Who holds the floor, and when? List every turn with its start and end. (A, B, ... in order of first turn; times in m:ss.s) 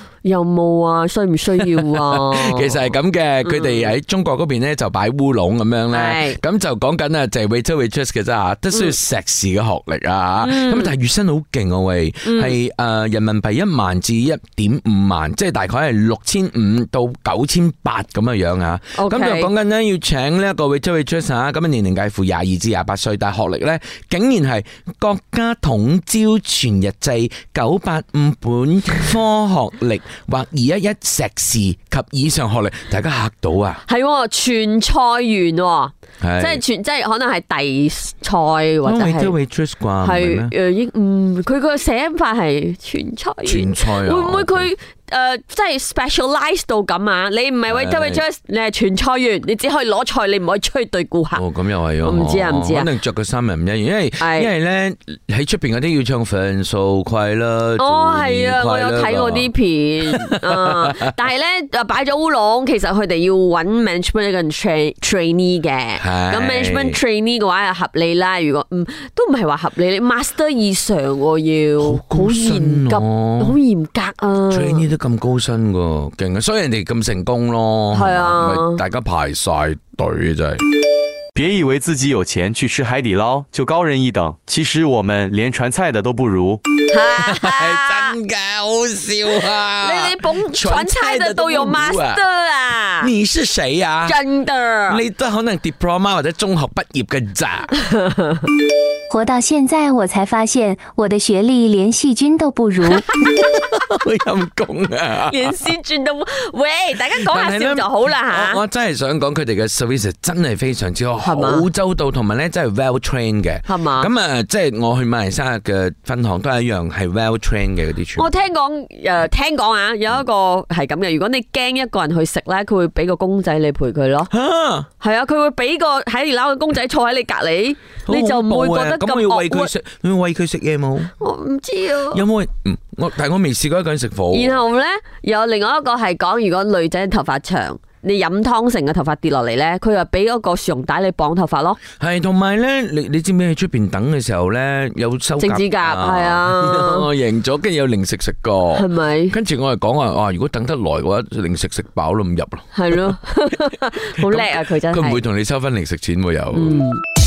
0:00.2-0:02.9 A
0:01.7-0:33.8 B
0:03.4-0:03.9 A
0:05.9-0:06.4 A
0:10.4-0:10.9 A
0:12.2-0:12.6 A
0:19.0-0:19.5 A
0:33.9-0:39.4 A
0:36.2-0:36.6 B
0:38.8-0:40.5 B
0:40.0-0:51.4 A
0:43.4-0:44.7 B
0:47.7-0:48.2 B
0:51.4-0:59.5 B
0:52.0-0:52.9 A
0:54.2-0:54.5 A
0:57.8-1:14.8 A
1:00.1-1:00.4 B
1:06.0-1:07.0 B
1:11.8-1:13.6 B
1:14.5-1:20.6 B
1:17.9-1:18.8 A
1:21.4-1:26.6 C
1:26.9-1:28.1 A
1:27.2-1:32.2 B
1:29.8-1:33.1 A
1:33.0-1:34.2 B
1:34.0-1:35.0 A
1:34.9-1:37.7 B
1:39.1-1:43.0 D
1:43.3-1:45.5 B
1:45.3-1:48.6 A
1:47.2-1:58.3 B
1:51.2-1:51.7 A
1:53.7-1:54.1 A
1:58.2-2:04.3 A
2:04.3-2:04.9 B
2:05.0-2:09.7 A
2:08.1-2:11.1 B
2:11.2-2:12.2 A
2:12.1-2:14.6 B
2:14.3-2:21.8 A
2:22.0-2:33.1 B
2:25.4-2:27.1 A
2:28.8-2:29.4 A
2:32.7-2:35.2 A
2:34.2-2:36.8 B
2:36.5-2:37.0 A